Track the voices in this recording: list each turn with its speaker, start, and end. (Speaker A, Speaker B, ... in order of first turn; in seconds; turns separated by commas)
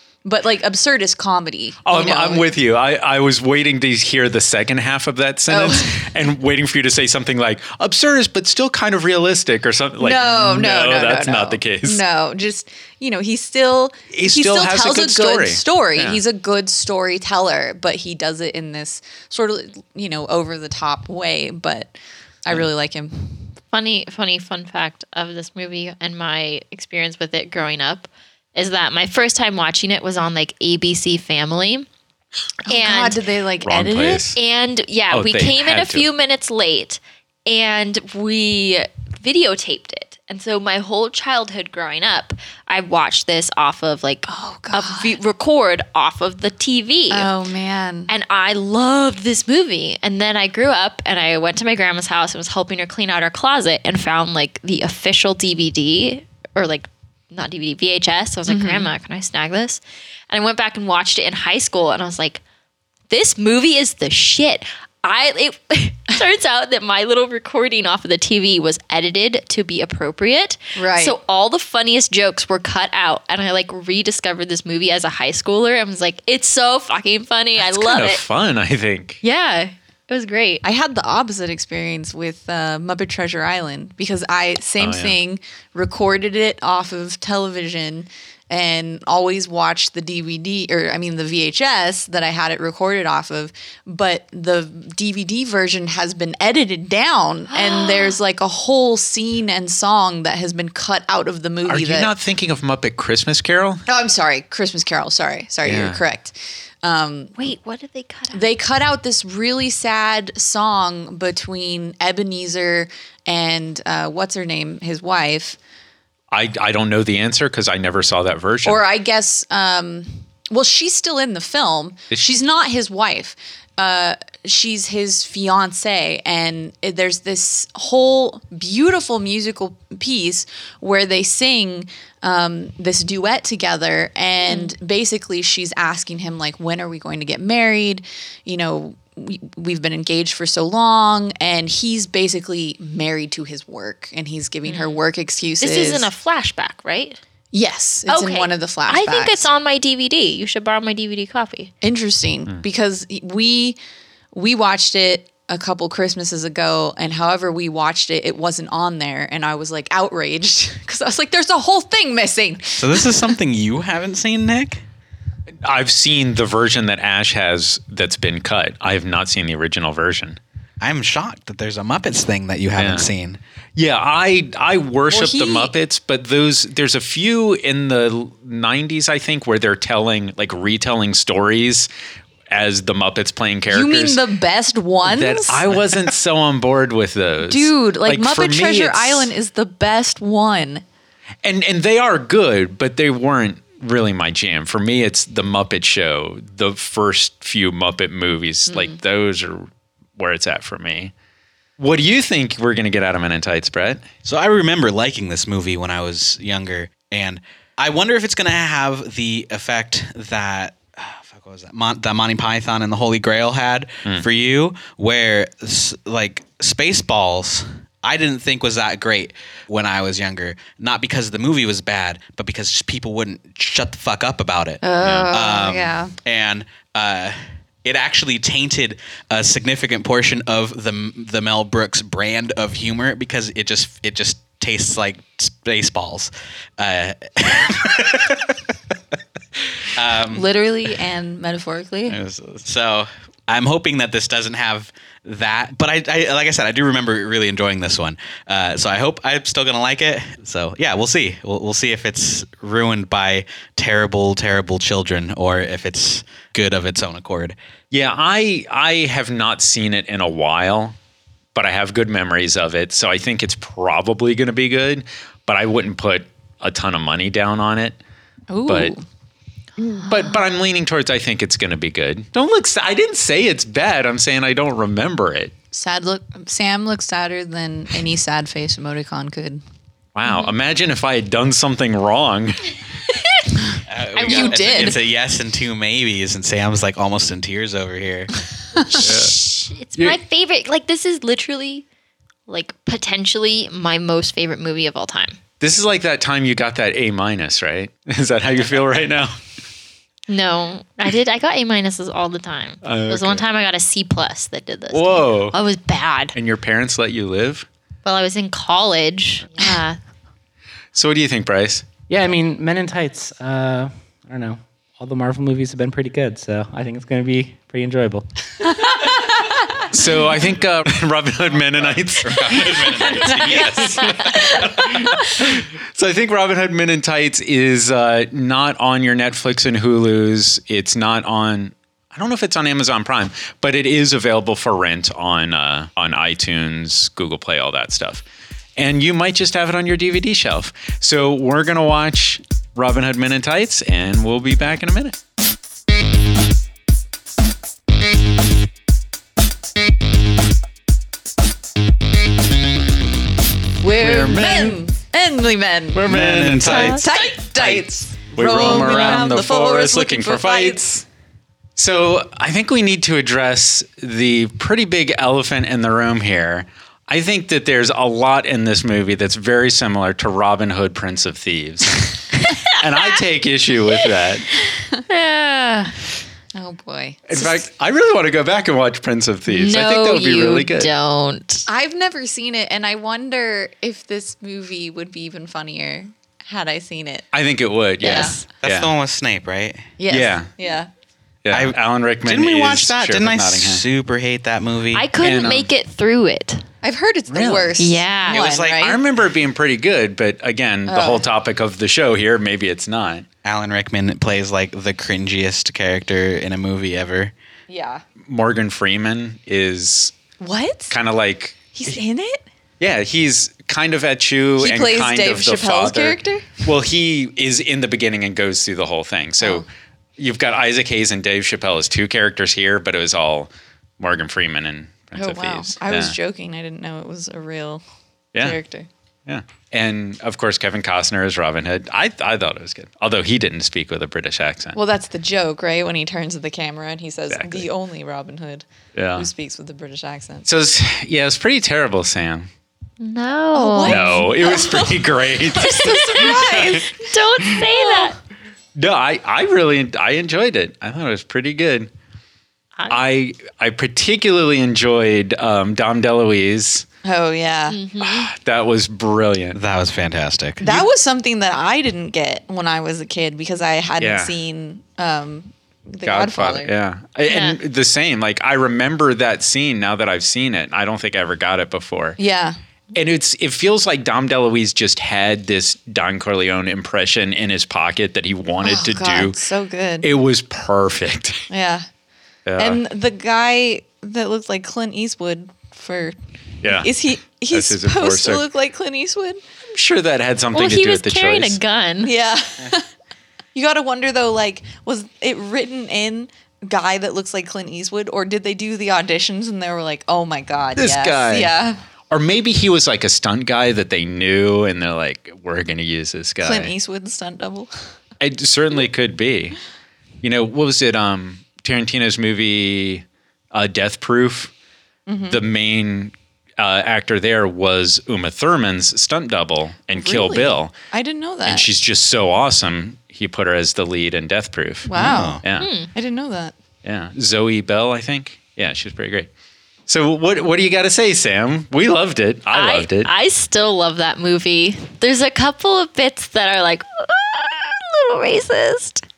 Speaker A: 0.2-2.5, Speaker B: 1.8-12.0, Speaker A: 5.5-6.1, Speaker A: 10.0-23.5, Speaker B: 14.1-16.2, Speaker C: 23.7-31.9, Speaker A: 32.7-34.3, Speaker C: 32.7-33.2, Speaker B: 33.6-34.4, Speaker C: 34.4-47.3, Speaker B: 35.1-36.0, Speaker A: 44.3-45.2, Speaker A: 47.1-48.1, Speaker C: 48.1-62.4, Speaker A: 58.5-58.9, Speaker C: 63.1-78.2, Speaker A: 70.7-71.2, Speaker B: 77.6-79.2, Speaker C: 79.2-80.6, Speaker A: 80.6-102.1, Speaker B: 84.8-85.2, Speaker C: 97.5-98.2, Speaker B: 101.7-103.8, Speaker A: 103.9-107.3, Speaker B: 105.6-106.0, Speaker C: 107.4-108.4, Speaker A: 108.3-115.6, Speaker B: 116.3-118.8, Speaker A: 118.6-146.1, Speaker C: 134.4-134.7, Speaker C: 144.7-145.0, Speaker C: 145.6-147.2, Speaker A: 147.5-149.5, Speaker C: 148.1-151.7, Speaker A: 151.8-153.8, Speaker A: 154.3-163.3, Speaker D: 162.8-164.8, Speaker B: 165.6-170.4, Speaker D: 170.8-173.4, Speaker B: 172.7-173.1, Speaker B: 173.8-181.9, Speaker A: 175.1-175.7, Speaker B: 182.5-184.2, Speaker A: 183.7-185.8, Speaker B: 185.0-189.3, Speaker A: 187.4-190.8, Speaker B: 191.4-201.1, Speaker A: 198.7-198.9, Speaker B: 201.8-204.0, Speaker D: 204.2-238.6, Speaker A: 224.8-226.1, Speaker B: 225.0-225.3, Speaker D: 239.8-240.5, Speaker A: 240.3-242.2, Speaker D: 242.1-257.6, Speaker B: 257.9-260.9, Speaker B: 261.5-268.0, Speaker A: 268.5-269.0, Speaker B: 268.7-268.9, Speaker B: 270.0-275.5, Speaker A: 275.7-279.6, Speaker B: 280.1-282.8, Speaker C: 280.3-280.5, Speaker C: 283.1-283.4, Speaker D: 283.9-288.3, Speaker C: 284.1-285.0, Speaker A: 284.2-285.0, Speaker A: 288.7-289.0, Speaker C: 289.0-291.8, Speaker B: 289.0-290.2, Speaker C: 292.5-295.4, Speaker B: 295.6-299.4, Speaker C: 300.3-306.3, Speaker B: 302.8-303.4, Speaker B: 304.9-305.6, Speaker B: 306.3-307.7, Speaker C: 308.0-310.0, Speaker B: 310.9-311.9, Speaker E: 312.1-319.1, Speaker B: 319.9-338.2, Speaker D: 321.7-324.8, Speaker A: 323.2-323.8, Speaker B: 338.8-345.2, Speaker A: 353.8-356.1, Speaker B: 354.0-354.8, Speaker B: 355.9-361.0, Speaker D: 356.0-357.0, Speaker A: 356.6-360.9, Speaker C: 358.8-359.2, Speaker B: 361.8-374.4, Speaker C: 375.1-376.0, Speaker A: 376.5-377.6, Speaker B: 377.3-380.9, Speaker C: 379.5-381.7, Speaker A: 381.7-387.2, Speaker B: 387.3-388.9, Speaker A: 388.0-388.4, Speaker C: 388.0-388.4, Speaker D: 388.6-389.9, Speaker A: 390.0-390.9, Speaker B: 390.1-390.5, Speaker B: 391.4-393.8, Speaker D: 391.5-395.1, Speaker C: 394.9-396.6, Speaker B: 395.2-395.7, Speaker A: 396.8-399.0, Speaker B: 397.3-397.8, Speaker C: 397.8-398.4, Speaker D: 398.3-398.9, Speaker B: 398.8-403.2, Speaker A: 400.9-401.2, Speaker D: 403.4-407.3, Speaker A: 407.7-408.0, Speaker B: 408.2-410.1, Speaker A: 410.4-410.9, Speaker B: 410.9-411.9, Speaker A: 411.7-412.4, Speaker B: 412.8-419.6, Speaker A: 414.6-416.6, Speaker A: 419.4-419.6, Speaker B: 420.2-426.1, Speaker A: 425.1-427.8, Speaker A: 428.4-428.9, Speaker B: 429.2-434.8, Speaker A: 434.7-440.4, Speaker B: 437.3-437.7, Speaker B: 438.9-439.3, Speaker B: 440.4-442.5, Speaker C: 443.0-444.3, Speaker A: 443.5-448.1, Speaker B: 443.8-446.8, Speaker C: 445.6-448.1, Speaker B: 448.7-451.9, Speaker B: 452.9-456.9, Speaker A: 457.0-457.8, Speaker C: 457.7-458.3, Speaker B: 458.0-459.6, Speaker D: 459.5-460.6, Speaker A: 460.6-466.7, Speaker B: 464.0-464.3, Speaker B: 466.0-472.2, Speaker C: 467.3-467.6, Speaker A: 472.2-472.6, Speaker B: 472.9-479.4, Speaker A: 478.6-480.1, Speaker B: 480.0-481.4, Speaker A: 481.5-481.9, Speaker B: 482.4-482.8, Speaker A: 482.6-489.4, Speaker B: 486.6-486.9, Speaker B: 487.5-488.4, Speaker B: 489.6-491.6, Speaker C: 490.5-492.1, Speaker A: 492.0-492.9, Speaker A: 493.5-501.8, Speaker B: 500.8-501.5, Speaker B: 502.1-506.7, Speaker A: 506.4-507.7, Speaker B: 508.2-509.6, Speaker B: 510.2-514.5, Speaker A: 515.1-515.4, Speaker B: 515.3-520.7, Speaker A: 519.9-521.7, Speaker B: 521.4-524.9, Speaker A: 524.9-525.4, Speaker D: 524.9-525.4, Speaker B: 525.4-525.7, Speaker C: 525.6-525.9, Speaker A: 525.9-526.5, Speaker B: 526.8-529.3, Speaker B: 529.9-533.1, Speaker C: 532.5-539.0